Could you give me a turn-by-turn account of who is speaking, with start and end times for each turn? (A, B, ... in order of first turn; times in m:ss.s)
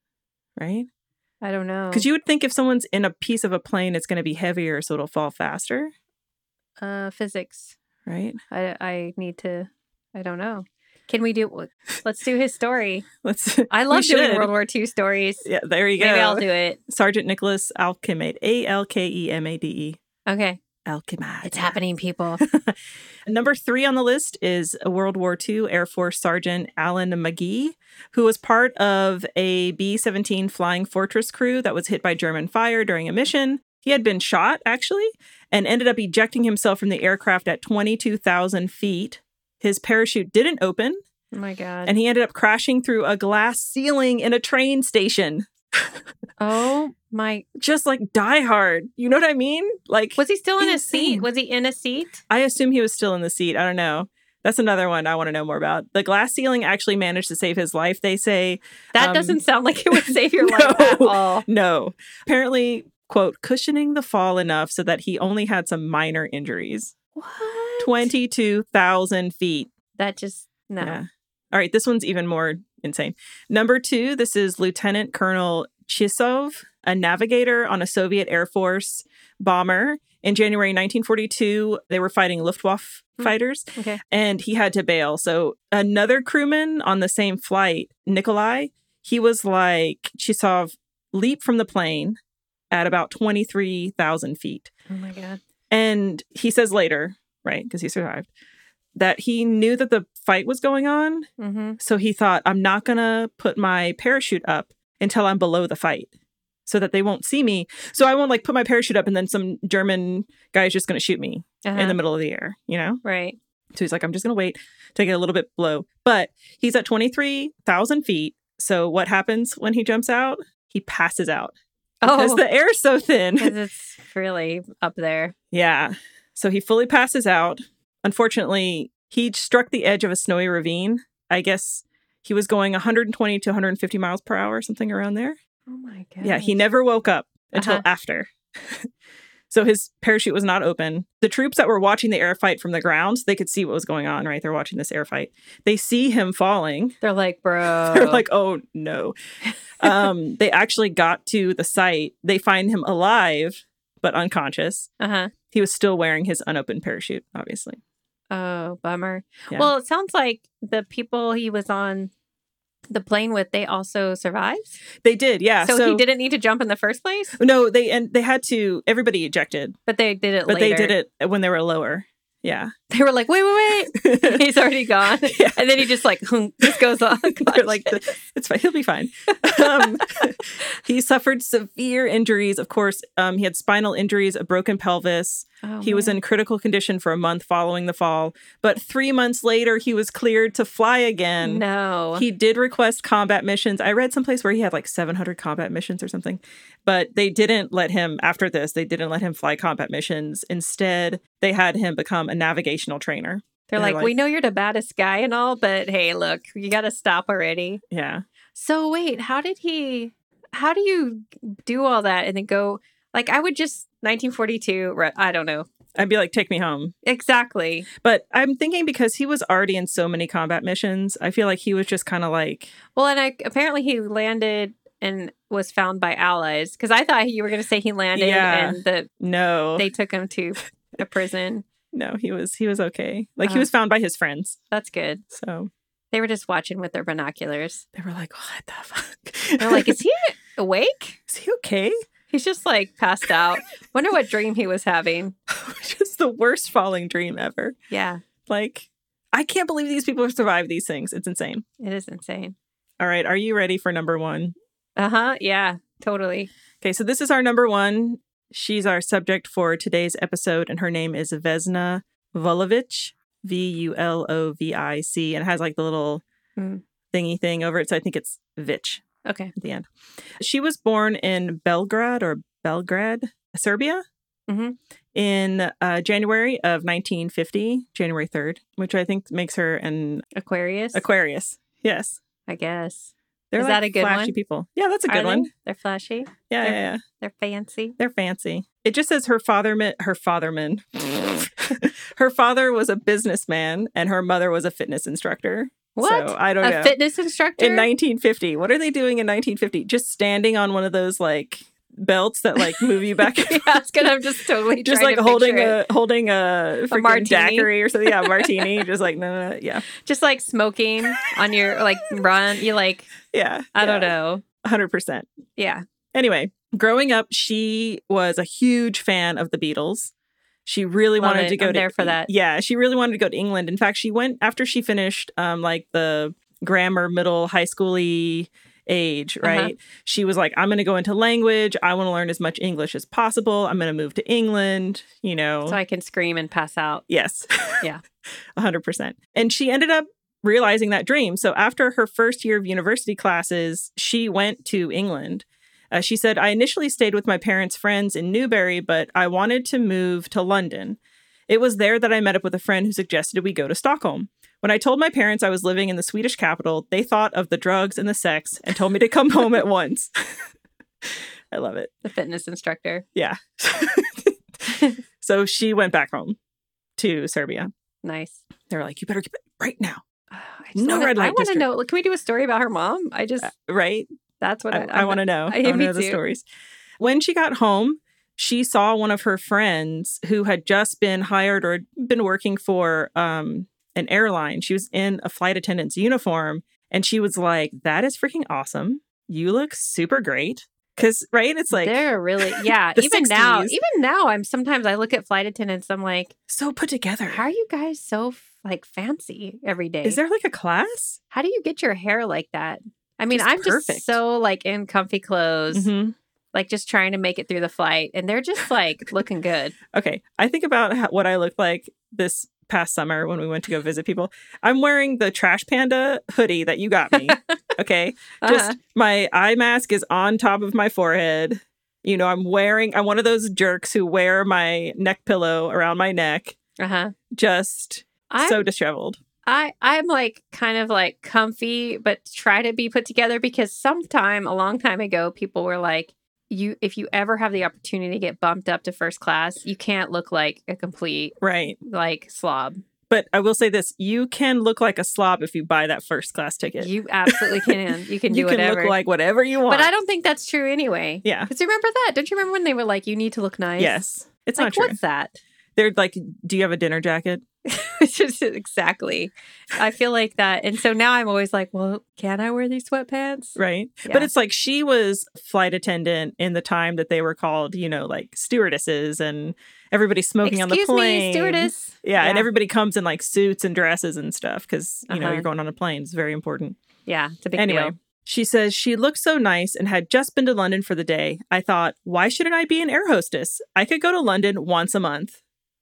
0:00.6-0:00.9 A
0:01.4-0:02.1 B
0:01.9-0:05.9 A
0:06.8-0:07.7 B
0:08.0-0:08.4 A
0:08.5-0:13.0 B
0:13.2-0:14.5 A
0:13.7-0:15.4 B
0:15.4-0:20.0 A
0:16.0-0:16.8 B
0:20.2-0:20.6 B
0:20.8-0:21.7 A
0:21.4-0:22.4 B
0:22.4-0:41.0 A
0:41.3-0:41.9 B
0:41.8-0:46.0 A
0:46.4-0:47.4 B
0:47.6-0:51.3 A
0:50.2-0:52.2 B
0:52.3-0:59.4 A
0:58.9-1:01.4 B
0:59.9-1:06.9 A
1:07.1-1:08.1 B
1:07.8-1:09.7 A
1:10.0-1:11.0 B
1:10.8-1:32.2 A
1:23.2-1:24.0 B
1:32.7-1:34.7 A
1:34.9-1:35.4 B
1:35.7-1:38.3 A
1:38.9-1:41.3 A
1:41.4-1:41.8 B
1:41.8-1:46.1 A
1:46.6-1:53.0 A
1:51.6-1:52.0 B
1:53.0-1:53.4 B
1:53.7-2:01.5 A
2:02.0-2:02.4 B
2:02.0-2:03.5 A
2:03.4-2:05.3 B
2:05.5-2:15.4 A
2:15.7-2:16.6 B
2:16.2-2:18.9 A
2:17.5-2:17.8 B
2:19.5-2:27.0 A
2:27.0-2:28.2 B
2:27.8-2:29.1 A
2:29.8-2:34.9 A
2:29.8-2:30.1 B
2:35.0-2:35.3 B
2:35.5-2:37.8 A
2:38.3-2:42.1 B
2:42.9-2:44.8 B
2:45.0-2:46.0 A
2:45.6-2:47.4 B
2:47.4-2:49.7 A
2:49.8-2:51.0 B
2:50.5-2:52.7 A
2:52.9-2:58.0 B
2:53.9-2:54.4 A
2:55.2-2:56.0 A
2:56.6-3:11.6 A
2:59.3-3:00.2 B
3:05.6-3:06.2 B
3:11.4-3:12.2 B
3:12.1-3:24.1 A
3:23.7-3:27.8 B
3:27.9-3:28.2 A
3:28.5-3:35.7 B
3:35.9-3:36.9 A
3:37.0-3:37.9 B
3:38.0-3:42.7 A
3:43.0-3:49.1 B
3:48.1-3:49.8 A
3:49.8-3:51.6 B
3:51.9-3:54.6 A
3:54.7-3:55.2 B
3:55.3-3:55.7 A
3:56.1-3:57.8 B
3:57.9-4:00.0 A
3:59.6-4:01.2 B
4:01.3-4:01.9 A
4:02.3-4:05.3 B
4:05.5-4:07.7 A
4:07.9-4:08.2 B
4:08.5-4:11.6 A
4:11.8-4:12.6 B
4:13.0-4:14.5 A
4:15.0-4:16.5 B
4:16.8-4:26.2 A
4:26.6-4:26.8 B
4:27.1-4:29.0 A
4:29.2-4:29.5 B
4:29.6-4:29.9 A
4:30.4-4:34.0 A
4:34.5-4:34.8 B
4:35.1-4:40.2 A
4:40.3-4:41.0 B
4:40.9-4:42.2 A
4:42.5-4:44.4 B
4:43.5-4:45.5 A
4:45.1-4:48.0 B
4:46.5-4:47.0 A
4:48.0-4:57.0 A
4:56.0-4:57.9 B
4:57.6-5:04.2 A
5:02.6-5:05.8 B
5:04.8-5:09.8 A
5:06.9-5:08.8 B
5:10.0-5:13.1 B
5:11.4-5:12.1 A
5:13.2-5:15.3 A
5:13.7-5:14.4 B
5:15.6-5:15.8 B
5:16.1-5:20.1 A
5:20.6-5:35.8 A
5:21.2-5:22.3 B
5:29.4-5:29.7 B
5:35.6-5:37.0 B
5:37.1-5:37.8 A
5:38.6-6:00.3 A
6:01.0-6:01.9 A
6:02.0-6:03.0 B
6:03.1-6:06.4 A
6:07.0-6:07.7 A
6:08.0-6:08.4 B
6:08.7-6:10.0 A
6:10.3-6:13.5 B
6:10.7-6:11.6 A
6:13.4-6:14.1 A
6:14.4-6:16.2 B
6:14.7-6:16.4 A
6:17.0-6:33.8 A
6:31.7-6:36.3 B
6:36.5-6:37.4 A
6:37.3-6:40.2 B
6:40.0-6:41.2 A
6:41.3-6:45.9 B
6:43.3-6:44.2 A
6:45.7-6:46.2 A
6:46.5-6:49.8 B
6:49.9-7:06.6 A
6:57.1-6:57.4 B
6:58.4-6:58.8 B
7:06.8-7:07.1 B
7:07.3-7:09.2 A
7:08.3-7:08.6 B
7:09.4-7:22.8 B
7:21.4-7:21.8 A
7:23.1-7:29.9 A
7:26.8-7:28.9 B
7:29.7-7:34.0 B
7:31.2-7:31.5 A
7:33.8-7:35.0 A
7:34.6-7:35.4 B
7:35.8-7:37.4 A
7:37.6-7:44.3 B
7:43.6-7:56.8 A
7:50.4-7:52.5 B
7:55.1-7:55.4 B
7:57.0-7:57.9 B
7:57.6-8:05.4 A